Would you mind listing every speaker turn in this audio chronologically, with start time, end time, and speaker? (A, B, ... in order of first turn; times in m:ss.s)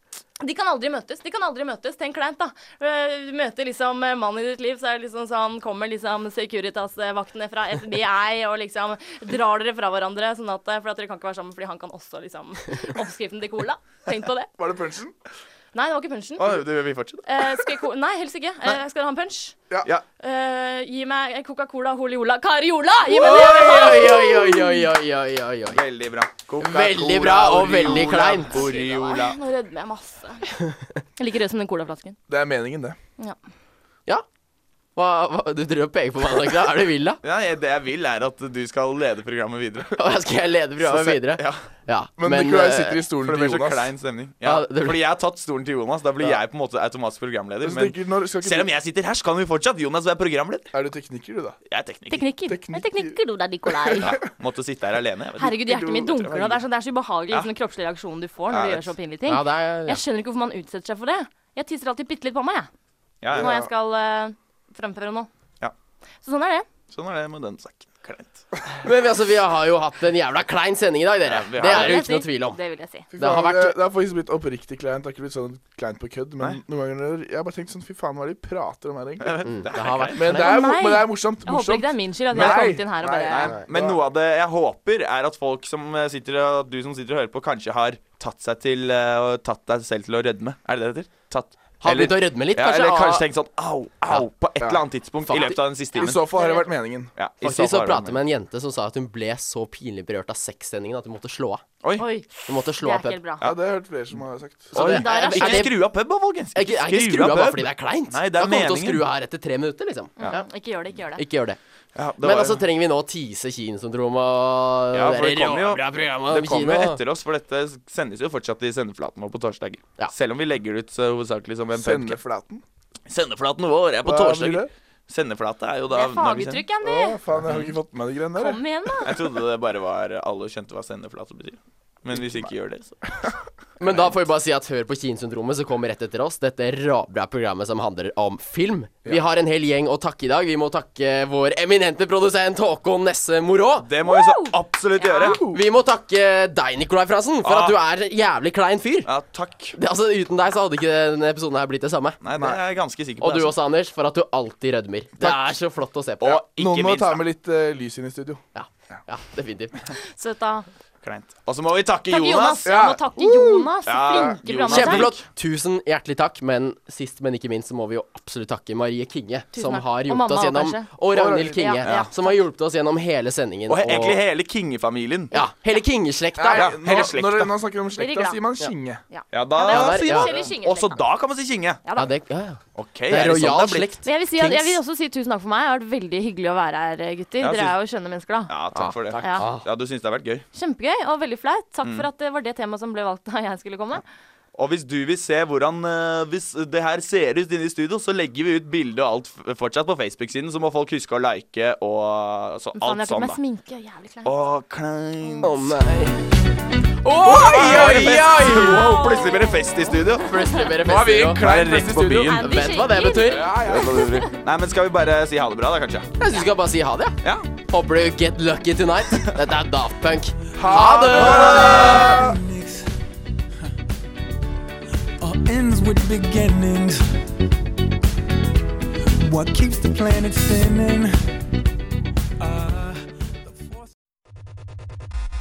0:00.4-0:14.5 A
0:14.6-0:15.1 B
0:15.7-0:16.6 A
0:16.4-0:17.6 C
0:17.2-0:19.6 A
0:20.2-0:24.9 A
0:23.1-0:25.8 D
0:25.7-0:29.4 C
0:26.6-0:28.7 D
0:28.5-0:30.5 A
0:31.2-0:32.2 A
0:32.3-0:33.0 B
0:35.0-0:37.2 D
0:37.2-0:40.0 C
0:40.0-0:43.0 D
0:40.8-0:41.6 C
0:42.2-0:43.9 B
0:43.2-0:50.7 C
0:44.4-0:45.0 D
0:47.6-0:48.7 B
0:50.7-0:51.6 B
0:51.7-0:52.3 C
0:52.1-0:54.2 A
0:52.5-0:54.1 B
0:54.0-0:56.6 C
0:55.4-1:02.7 A
0:58.5-0:58.9 C
0:59.3-1:00.0 D
1:03.2-1:03.7 C
1:03.3-1:05.3 A
1:06.2-1:06.6 A
1:06.9-1:08.4 C
1:08.8-1:12.6 D
1:11.2-1:12.0 C
1:11.6-1:13.0 A
1:13.1-1:19.4 B
1:13.2-1:13.8 D
1:19.2-1:20.3 C
1:19.4-1:20.8 D
1:20.1-1:24.0 B
1:20.3-1:23.5 A
1:22.3-1:22.7 C
1:23.3-1:36.2 C
1:31.8-1:33.2 D
1:35.2-1:35.6 D
1:36.0-1:37.1 B
1:36.0-1:36.7 A
1:37.2-1:38.2 C
1:37.4-1:41.6 D
1:42.0-1:43.5 A
1:42.5-1:43.2 D
1:43.4-1:44.7 B
1:44.7-1:45.9 D
1:44.7-1:49.1 C
1:44.8-1:45.7 A
1:46.5-1:50.3 D
1:50.2-1:51.2 A
1:51.2-1:51.6 D
1:51.9-1:52.6 C
1:52.2-1:57.0 D
1:54.9-2:02.2 C
2:01.7-2:02.6 B
2:03.1-2:06.6 C
2:04.0-2:04.7 B
2:05.9-2:07.2 A
2:06.8-2:08.6 B
2:07.4-2:07.7 C
2:08.4-2:09.1 A
2:09.0-2:13.0 C
2:13.8-2:23.9 D
2:13.8-2:14.2 C
2:23.8-2:25.4 C
2:24.0-2:25.4 A
2:25.2-2:25.6 B
2:25.5-2:29.1 D
2:27.4-2:27.8 C
2:29.0-2:29.8 C
2:29.8-2:32.6 D
2:32.2-2:33.6 C
2:33.2-2:36.4 D
2:36.2-2:37.2 C
2:36.4-2:38.4 B
2:38.5-2:39.9 D
2:40.1-2:40.6 A
2:41.0-2:42.7 C
2:42.1-2:45.1 A
2:42.6-2:43.5 B
2:43.8-2:45.2 C
2:44.7-2:54.2 D
2:49.5-2:50.9 A
2:51.1-2:51.7 B
2:51.5-2:52.4 A
2:51.8-2:52.1 C
2:53.7-2:55.4 C
2:55.3-2:56.8 D
2:56.4-2:59.0 B
2:56.5-2:57.5 C
2:58.0-2:58.4 A
2:59.1-3:01.1 A
2:59.3-3:01.8 C
2:59.6-3:00.4 D
3:01.8-3:02.1 A
3:02.0-3:04.8 D
3:02.7-3:03.9 C
3:04.0-3:08.5 A
3:07.4-3:07.8 C
3:08.5-3:10.4 C
3:08.7-3:09.7 D
3:09.1-3:09.5 A
3:10.5-3:14.0 A
3:11.8-3:12.1 C
3:14.5-3:23.4 C
3:22.8-3:24.4 A
3:24.2-3:25.8 C
3:25.4-3:26.2 D
3:27.0-3:29.0 D
3:27.2-3:30.4 C
3:27.2-3:28.6 B
3:28.6-3:29.7 A
3:30.2-3:31.4 D
3:30.8-3:32.4 B
3:31.4-3:32.7 C
3:32.3-3:34.3 A
3:32.3-3:33.5 D
3:33.1-3:34.2 B
3:33.6-3:36.1 C
3:36.2-3:42.3 D
3:37.2-3:37.5 C
3:40.5-3:42.3 B
3:41.1-3:42.3 C
3:42.2-3:42.9 E
3:45.2-3:47.1 E
3:49.2-3:51.2 E
3:52.4-3:53.0 E